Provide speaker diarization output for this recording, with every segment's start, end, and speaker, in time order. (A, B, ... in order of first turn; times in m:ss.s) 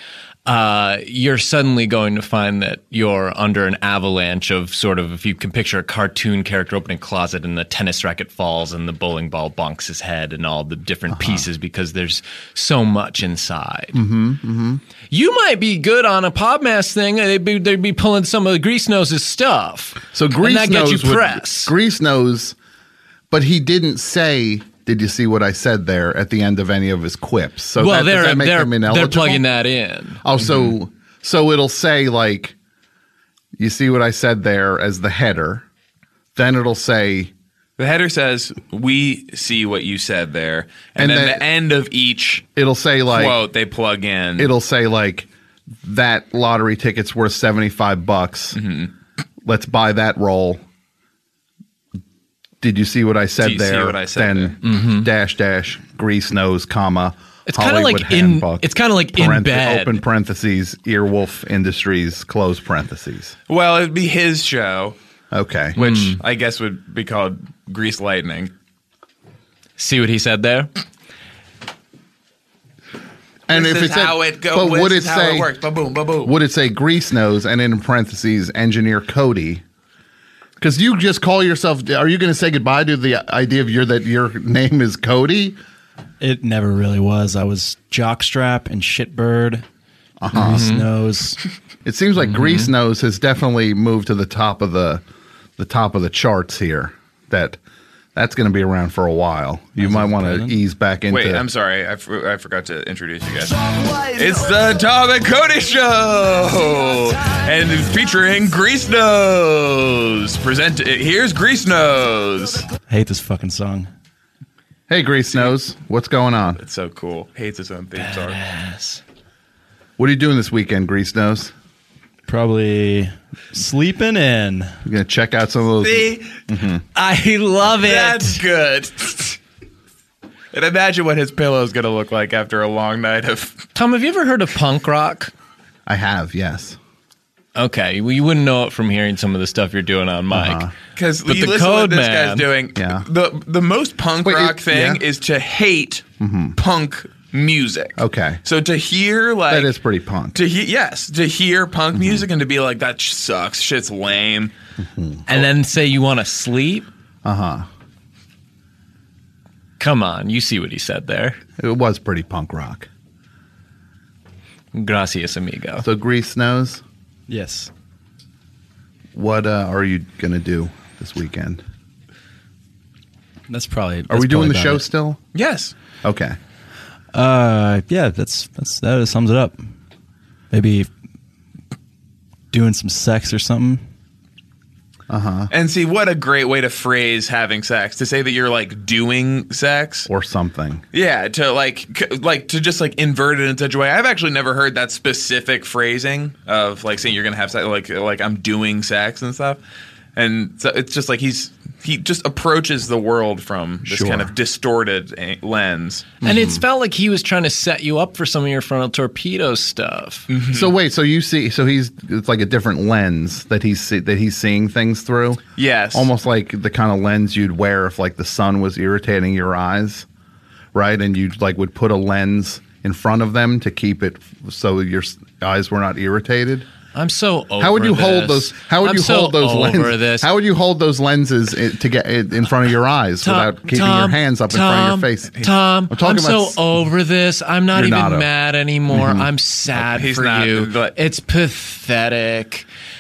0:00.5-0:14.0 A
0:11.1-0:11.5 B
0:13.9-0:14.8 B
0:15.1-0:21.7 A
0:20.1-0:22.6 B
0:23.3-0:29.4 B
0:27.8-0:30.2 A
0:30.2-0:32.6 B
0:33.6-0:35.6 B
0:36.4-0:37.3 B
0:37.8-0:42.5 C
0:41.0-0:41.4 B
0:42.6-0:43.4 B
0:43.1-0:44.5 C
0:44.4-0:45.3 B
0:45.8-0:48.6 B
0:48.5-0:48.9 C
0:49.4-0:50.6 B
0:52.6-1:03.3 B
0:53.4-0:54.6 C
0:54.6-0:55.1 A
0:57.5-1:00.0 A
1:03.5-1:05.0 C
1:05.3-1:05.8 B
1:05.8-1:06.2 A
1:05.8-1:08.5 C
1:09.8-1:10.7 A
1:13.5-1:15.5 B
1:13.5-1:16.4 C
1:16.2-1:19.6 B
1:20.6-1:25.6 B
1:26.2-1:29.6 D
1:30.2-1:30.6 B
1:30.3-1:31.4 D
1:30.3-1:30.9 A
1:31.8-1:35.0 B
1:32.2-1:32.7 A
1:35.6-1:37.6 B
1:38.2-1:41.4 B
1:39.8-1:40.6 D
1:41.1-1:52.7 C
1:52.9-1:53.9 D
1:54.9-1:56.6 B
1:56.6-1:58.4 C
1:58.0-1:59.0 A
2:00.0-2:01.5 B
2:02.3-2:04.8 D
2:04.8-2:06.8 B
2:05.8-2:06.4 C
2:07.0-2:08.4 A
2:07.7-2:09.4 C
2:10.5-2:13.6 C
2:13.8-2:15.3 A
2:15.9-2:16.8 B
2:17.6-2:20.7 A
2:20.3-2:20.7 B
2:21.0-2:29.7 C
2:21.3-2:22.5 A
2:22.8-2:23.0 B
2:24.2-2:25.0 B
2:26.2-2:26.6 B
2:28.0-2:28.4 B
2:29.5-2:30.4 B
2:30.3-2:34.5 C
2:31.9-2:32.2 B
2:34.8-2:35.2 B
2:35.3-2:36.9 A
2:37.2-2:37.7 B
2:39.8-2:41.4 A
2:41.6-2:42.9 B
2:44.7-2:45.9 A
2:45.8-2:46.8 B
2:47.3-2:47.7 D
2:49.1-2:51.6 B
2:53.5-2:54.8 D
2:54.1-2:55.2 B
2:55.3-2:55.7 C
2:56.0-2:56.4 B
2:57.1-2:59.6 D
3:00.5-3:00.9 D
3:02.5-3:03.8 D
3:05.1-3:05.5 B
3:05.5-3:10.1 C
3:10.1-3:10.8 B
3:10.9-3:19.6 C
3:20.2-3:26.1 C
3:23.8-3:24.3 B
3:26.2-3:30.3 A
3:26.2-3:26.6 B
3:30.3-3:30.7 C
3:30.5-3:35.4 B
3:35.6-3:36.1 C
3:35.9-3:40.1 B
3:40.7-3:46.7 B
3:46.9-3:50.3 A
3:47.6-3:56.6 B
3:53.2-4:02.7 A
3:57.7-3:58.3 B
3:58.9-3:59.3 B
3:59.9-4:01.0 C